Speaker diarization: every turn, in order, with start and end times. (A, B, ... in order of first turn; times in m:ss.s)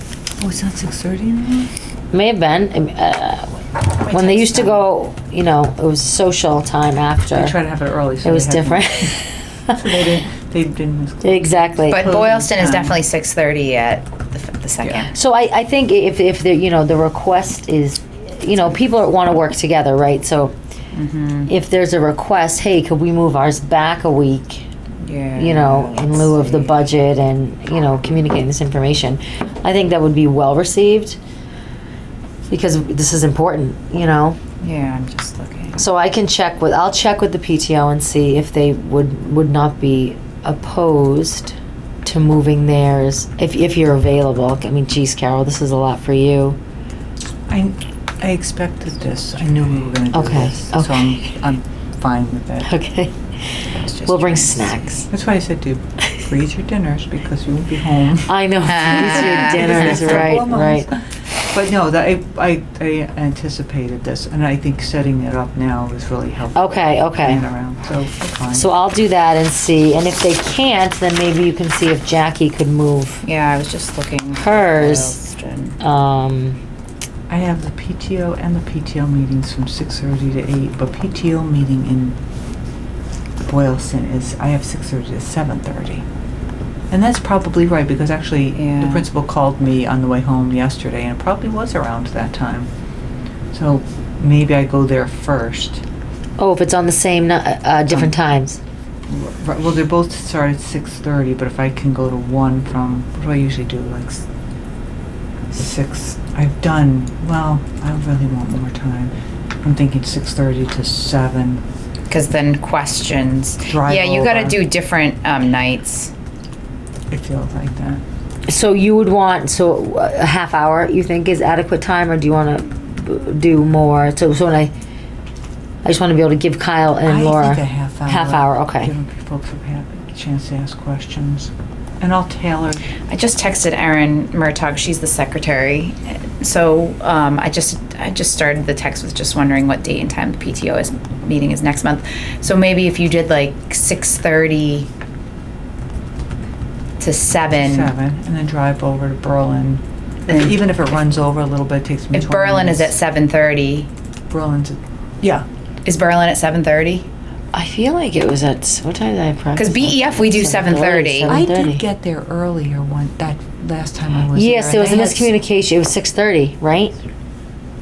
0:00.4-0:01.7 A
0:02.1-0:07.6 B
0:04.1-0:04.8 C
0:07.3-0:09.2 A
0:08.2-0:09.8 B
0:09.7-0:13.0 A
0:11.2-0:12.1 B
0:11.9-0:15.1 C
0:15.1-0:20.6 B
0:20.9-0:21.5 C
0:21.5-0:24.7 B
0:25.0-0:26.8 C
0:25.4-0:31.2 B
0:32.5-0:34.4 B
0:34.6-0:35.8 C
0:35.8-0:46.6 B
0:47.5-0:52.7 A
0:50.1-0:51.2 B
0:52.6-0:55.1 B
0:53.7-0:54.9 C
0:55.1-0:58.3 A
0:58.2-1:00.9 B
0:58.6-1:00.4 C
0:58.9-1:08.7 A
1:06.5-1:07.4 B
1:08.5-1:13.2 B
1:13.2-1:15.8 C
1:14.4-1:15.2 B
1:15.8-1:16.6 B
1:17.3-1:22.2 A
1:23.4-1:26.1 A
1:26.9-1:32.7 A
1:28.5-1:29.1 C
1:33.5-1:35.8 A
1:36.4-1:38.6 B
1:39.1-1:44.3 A
1:45.5-1:51.6 A
1:52.1-1:56.1 C
1:53.7-1:54.6 A
1:57.1-1:58.0 A
1:58.5-2:04.7 B
2:05.8-2:08.9 B
2:07.0-2:12.9 A
2:13.1-2:24.9 C
2:27.0-2:27.9 C
2:27.5-2:32.9 A
2:30.3-2:30.6 C
2:32.1-2:33.9 C
2:34.3-2:35.5 A
2:35.8-2:37.1 C
2:37.5-2:41.8 B
2:39.6-2:41.4 C
2:41.3-2:45.4 A
2:44.3-2:47.0 B